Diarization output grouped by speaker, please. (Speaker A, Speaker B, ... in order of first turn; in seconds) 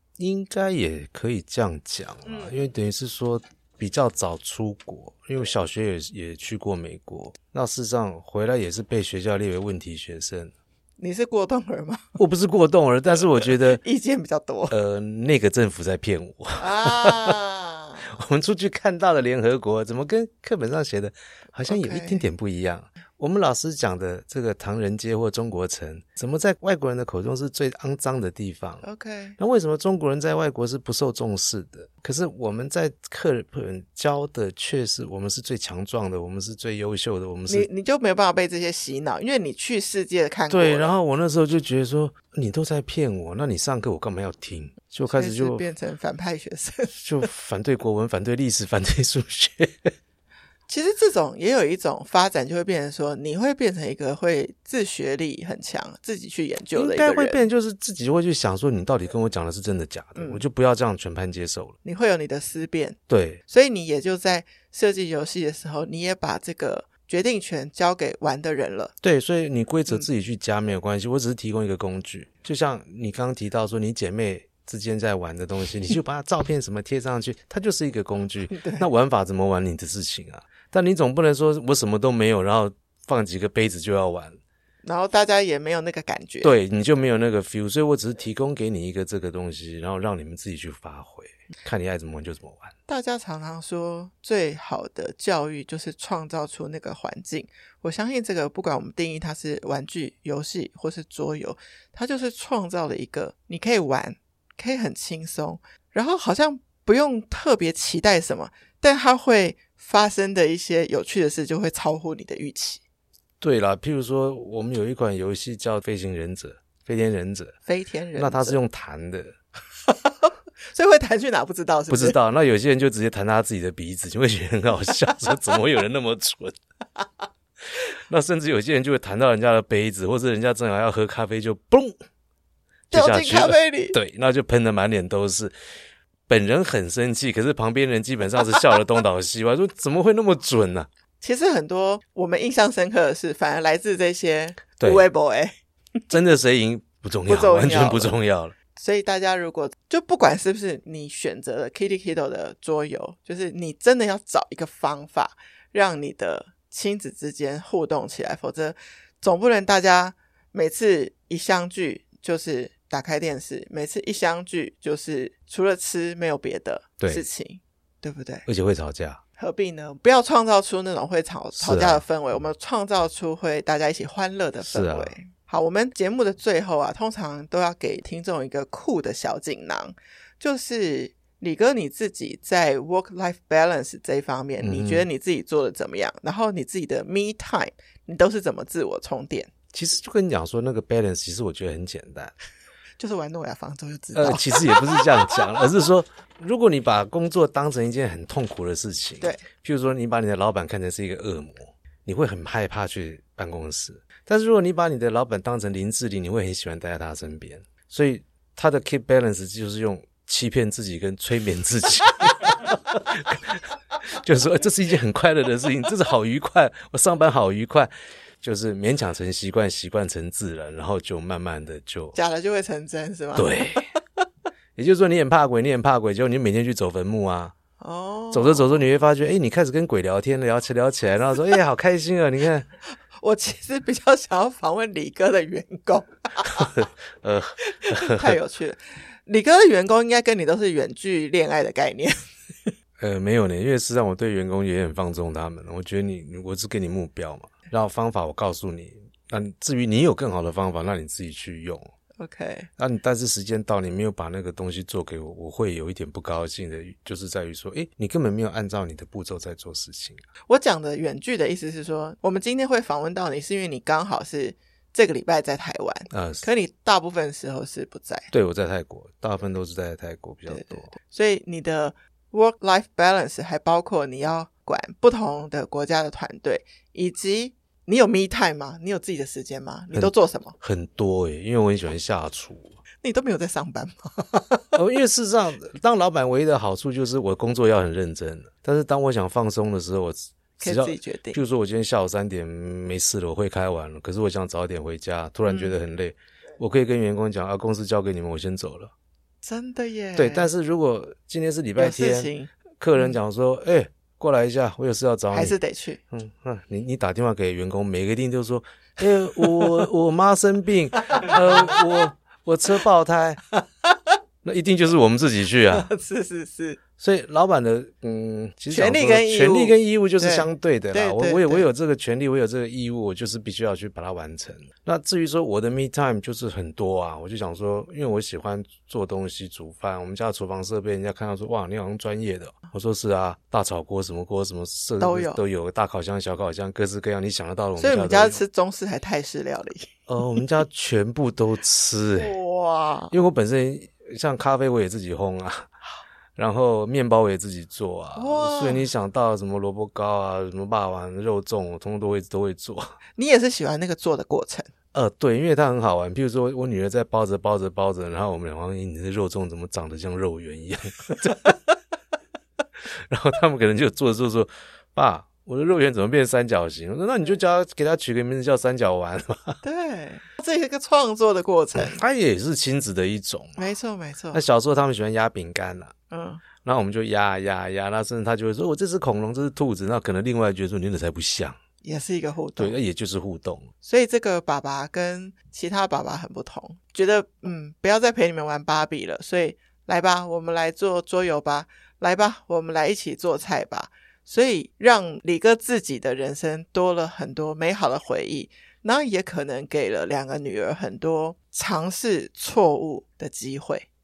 Speaker A: 0.2-10.5, 12.2-13.8, 14.7-17.4, 18.0-28.8, 29.4-37.7, 40.5-45.6, 47.0-49.9, 56.7-61.8, 63.1-63.4, 69.0-84.4, 86.4-92.7, 113.4-117.6, 118.2-119.4, 121.9-126.5, 128.1-131.9, 132.9-135.5, 136.3-140.9, 144.8-145.1, 146.1-148.5, 167.0-167.3, 168.4-169.2, 171.5-172.0, 174.6-175.1, 184.6-185.1, 189.7-192.3, 194.1-217.9, 218.4-222.2, 223.3-223.9, 224.8-227.5, 228.3-232.7, 236.4-238.4, 243.0-251.9, 252.8-260.2, 266.1-266.5, 268.3-270.9, 279.9-282.8, 284.7-298.9, 300.1-305.6, 306.1-313.4, 314.4-315.9, 317.0-338.4, 340.1-342.4, 343.1-345.7, 346.4-352.9, 354.9-361.5, 363.1-369.6, 371.7-373.6, 374.3-375.9, 376.6-381.6, 382.6-383.7
Speaker B: 2.2-2.5, 11.0-12.2, 13.4-14.7, 16.6-18.1, 21.6-22.2, 28.8-29.4, 37.5-40.9, 45.1-46.9, 50.7-57.4, 60.1-60.4, 61.8-63.0, 63.5-68.9, 78.5-78.9, 84.8-86.5, 92.9-112.8, 117.7-118.6, 119.9-122.2, 132.9-134.0, 141.2-145.5, 147.3-148.1, 148.8-168.4, 169.4-189.5, 193.0-195.4, 222.1-223.8, 227.8-228.8, 233.1-236.7, 237.7-242.7, 252.2-252.7, 260.5-268.3, 270.5-280.5, 283.0-284.8, 290.6-291.4, 295.5-295.7, 299.4-300.5, 301.8-303.2, 305.3-306.0, 309.4-309.8, 311.1-311.8, 313.6-314.1, 315.7-316.8, 318.7-321.6, 335.0-335.4, 337.8-339.9, 342.2-343.1, 348.1-348.9, 353.2-354.7, 369.6-372.0, 373.6-374.4, 376.1-376.4, 381.8-382.8, 383.8-403.9